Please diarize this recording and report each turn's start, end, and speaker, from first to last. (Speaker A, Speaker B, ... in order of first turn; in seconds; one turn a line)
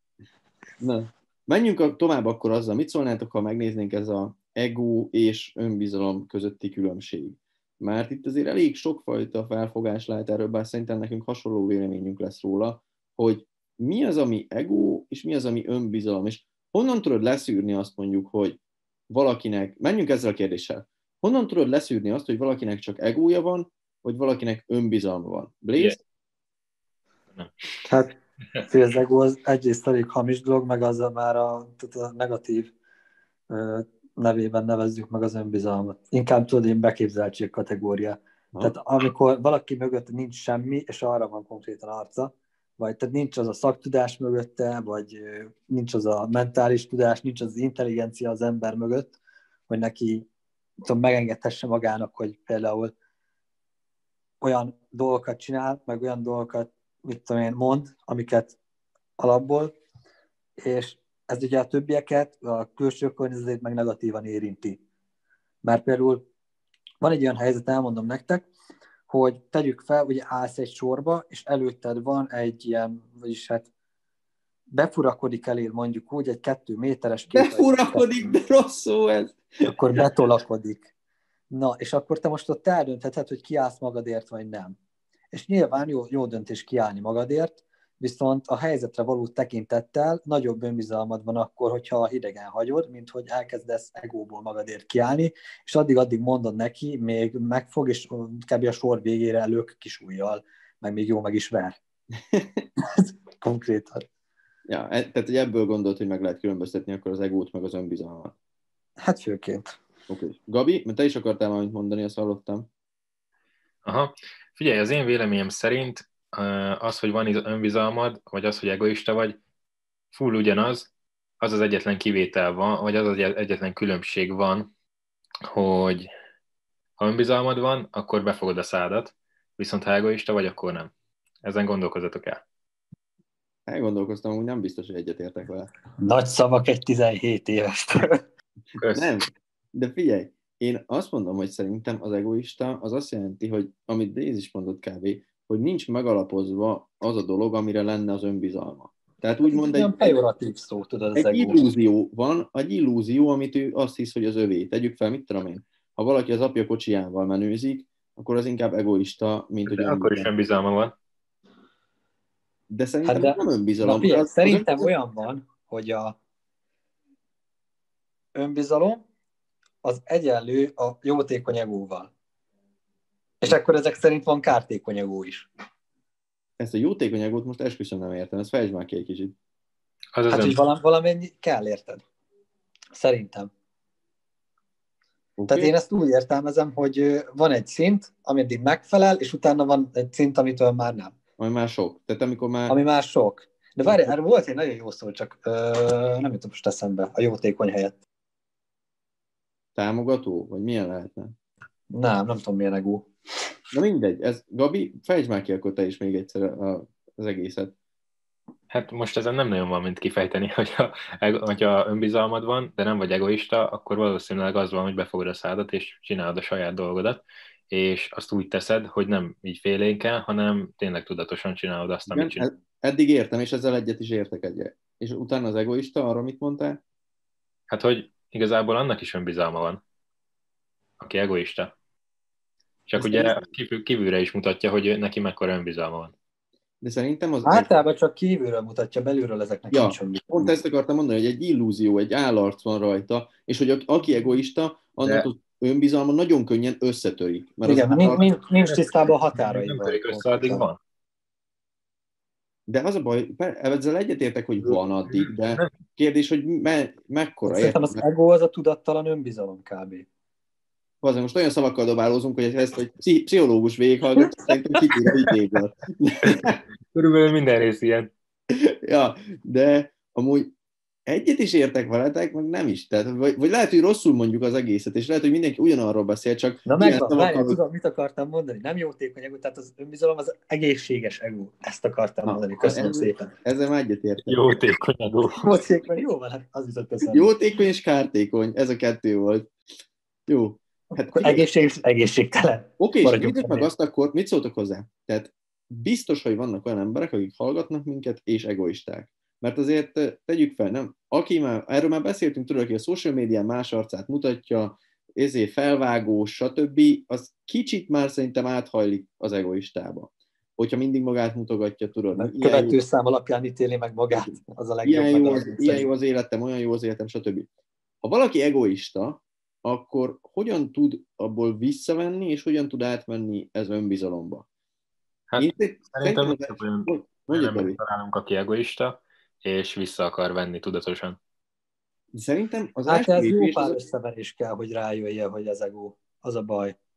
Speaker A: 0.8-26.0
Speaker B: 27.9-32.7
Speaker B: 33.5-49.1
Speaker B: 49.7-50.3
Speaker B: 50.8-52.9
Speaker B: 54.4-58.6
Speaker B: 59.2-59.7
Speaker B: 60.6-64.8
Speaker B: 65.6-66.2
Speaker B: 67.0-68.5
Speaker B: 69.1-73.7
Speaker B: 74.7-78.3
Speaker A: 77.3-79.4
Speaker B: 79.6-80.9
Speaker B: 81.5-84.8
Speaker B: 85.3-101.8
Speaker A: 102.3-102.6
Speaker B: 102.8-104.0
Speaker A: 104.7-108.3
Speaker B: 109.0-109.8
Speaker A: 110.1-112.7
Speaker C: 113.8-119.4
Speaker C: 120.1-124.7
Speaker C: 125.5-126.1
Speaker C: 127.0-130.9
Speaker C: 131.4-132.4
Speaker A: 133.7-135.7
Speaker B: 136.0-138.2
Speaker C: 138.8-139.1
Speaker A: 138.9-150.1
Speaker B: 149.4-151.7
Speaker A: 151.1-160.3
Speaker C: 159.7-160.9
Speaker A: 162.7-164.9
Speaker B: 163.1-166.2
Speaker B: 168.3-169.0
Speaker B: 169.8-172.1
Speaker B: 173.4-175.5
Speaker A: 176.6-179.3
Speaker C: 180.1-180.6
Speaker B: 180.3-182.0
Speaker B: 182.9-183.5
Speaker A: 185.4-185.7
Speaker B: 185.5-191.2
Speaker A: 191.4-192.8
Speaker B: 192.7-198.0
Speaker A: 193.8-194.1
Speaker A: 199.7-201.3
Speaker B: 201.9-203.1
Speaker A: 203.7-207.7
Speaker C: 208.7-222.5
Speaker A: 222.1-226.8
Speaker C: 227.7-229.8
Speaker C: 231.0-231.7
Speaker C: 232.9-236.1
Speaker A: 233.0-233.4
Speaker A: 236.8-237.7
Speaker B: 237.4-240.5
Speaker A: 239.7-248.3
Speaker B: 247.6-250.7
Speaker C: 248.7-250.8
Speaker A: 252.7-258.0
Speaker C: 254.7-255.7
Speaker B: 257.5-260.1
Speaker A: 261.0-266.6
Speaker C: 266.2-268.1
Speaker A: 268.5-270.5
Speaker A: 271.1-277.6
Speaker B: 276.6-283.3
Speaker A: 282.2-284.4
Speaker C: 284.2-285.4
Speaker B: 285.4-287.3
Speaker A: 287.0-289.5
Speaker A: 290.3-291.5
Speaker B: 291.0-293.7
Speaker A: 292.8-312.8
Speaker B: 312.2-315.9
Speaker A: 314.1-317.5
Speaker A: 318.0-324.4
Speaker C: 325.3-331.2
Speaker A: 325.4-327.8
Speaker A: 332.1-333.8
Speaker B: 332.9-336.7